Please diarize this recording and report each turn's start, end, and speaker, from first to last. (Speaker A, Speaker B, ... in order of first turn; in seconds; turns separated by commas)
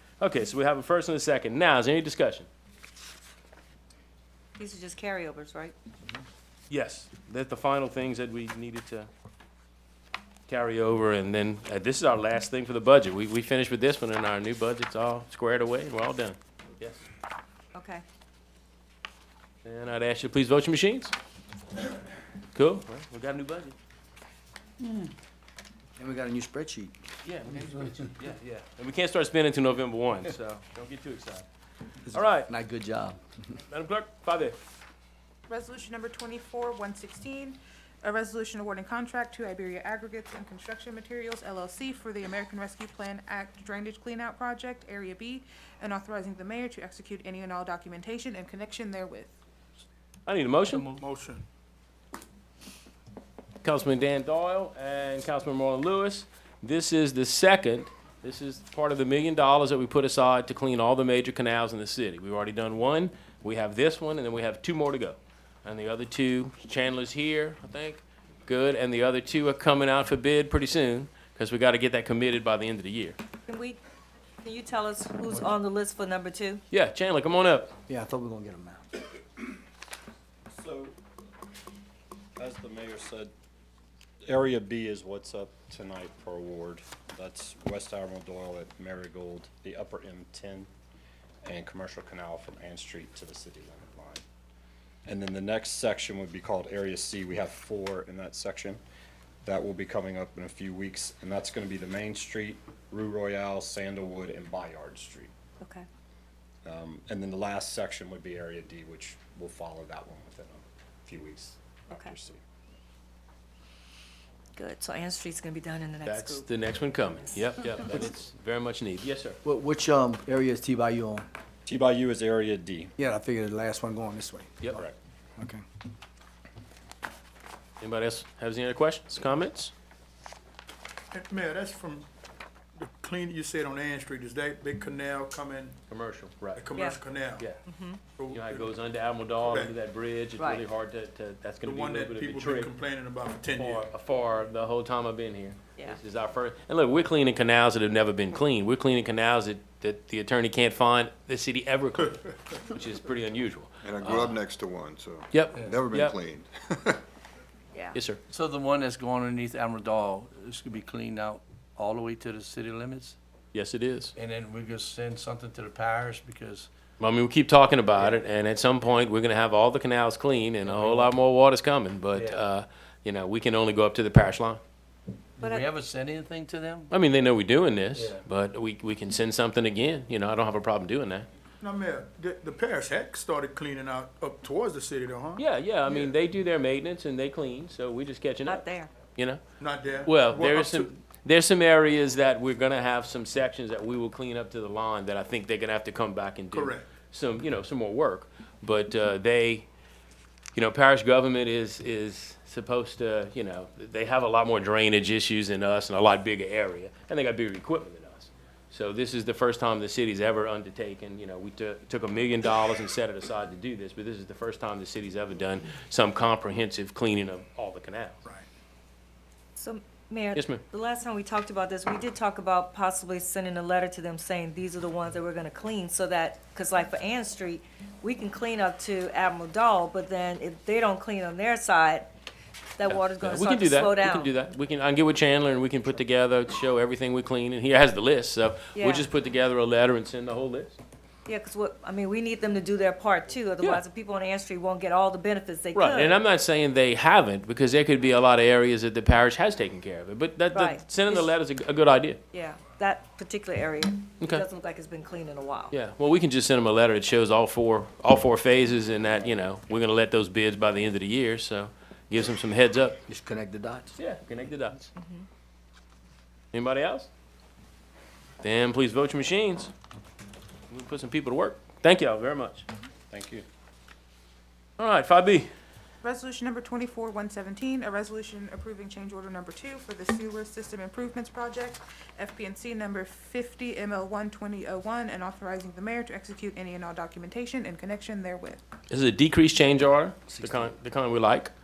Speaker A: 0.2-2.5, Speaker B: 4.6-5.8, Speaker A: 6.7-9.1, Speaker A: 10.5-17.0, Speaker B: 17.7-18.0, Speaker A: 19.6-21.1, Speaker A: 22.5-23.8, Speaker C: 26.0-26.9, Speaker A: 27.2-31.5, Speaker A: 32.1-32.5, Speaker C: 32.1-33.2, Speaker A: 33.7-34.6, Speaker D: 35.5-49.3, Speaker A: 50.3-50.9, Speaker E: 50.7-51.0, Speaker F: 51.0-51.5, Speaker A: 53.6-73.2, Speaker B: 73.5-73.8, Speaker B: 74.4-76.6, Speaker A: 76.7-77.7, Speaker C: 77.9-78.9, Speaker G: 80.5-81.0, Speaker G: 82.4-83.3, Speaker G: 84.3-90.7, Speaker G: 91.5-94.2, Speaker G: 95.1-98.8, Speaker G: 99.5-105.3, Speaker B: 105.6-105.9, Speaker G: 106.7-112.4, Speaker B: 114.6-116.5, Speaker A: 116.1-119.4, Speaker C: 119.4-121.3, Speaker G: 121.7-122.9, Speaker C: 123.0-124.7, Speaker G: 124.7-125.0, Speaker C: 125.4-125.6, Speaker A: 127.8-129.7, Speaker F: 131.1-132.1, Speaker F: 132.8-135.8, Speaker A: 135.9-136.7, Speaker F: 136.6-137.5, Speaker B: 136.7-137.0, Speaker B: 137.7-138.0, Speaker F: 138.2-138.7, Speaker A: 138.3-142.7, Speaker F: 139.4-139.7, Speaker B: 140.4-140.6, Speaker F: 141.6-143.9, Speaker A: 143.6-154.4, Speaker H: 153.8-157.0, Speaker A: 155.3-156.2, Speaker A: 157.9-158.2, Speaker E: 158.3-163.2, Speaker A: 163.5-164.1, Speaker E: 164.2-166.7, Speaker A: 167.0-174.6, Speaker E: 170.6-171.1, Speaker E: 172.1-172.4, Speaker E: 175.4-176.9, Speaker B: 175.4-175.7, Speaker A: 176.9-181.3, Speaker E: 177.9-178.2, Speaker F: 181.6-186.1, Speaker A: 185.4-189.4, Speaker B: 188.4-188.9, Speaker F: 189.6-190.9, Speaker A: 190.1-199.7, Speaker F: 196.5-196.9, Speaker A: 200.6-218.2, Speaker B: 219.6-232.1, Speaker A: 220.3-220.6, Speaker B: 232.8-234.3, Speaker A: 232.8-240.8, Speaker B: 238.8-239.1, Speaker B: 241.3-246.2, Speaker A: 245.8-252.2, Speaker B: 250.5-251.3, Speaker B: 252.3-255.7, Speaker A: 254.2-254.4, Speaker A: 255.7-263.0, Speaker C: 263.1-263.9, Speaker A: 264.0-264.9, Speaker B: 265.0-265.2, Speaker A: 266.5-267.1, Speaker A: 268.4-269.7, Speaker A: 270.7-272.6, Speaker G: 273.1-273.4, Speaker A: 274.8-275.5, Speaker D: 276.0-288.6, Speaker A: 288.9-291.5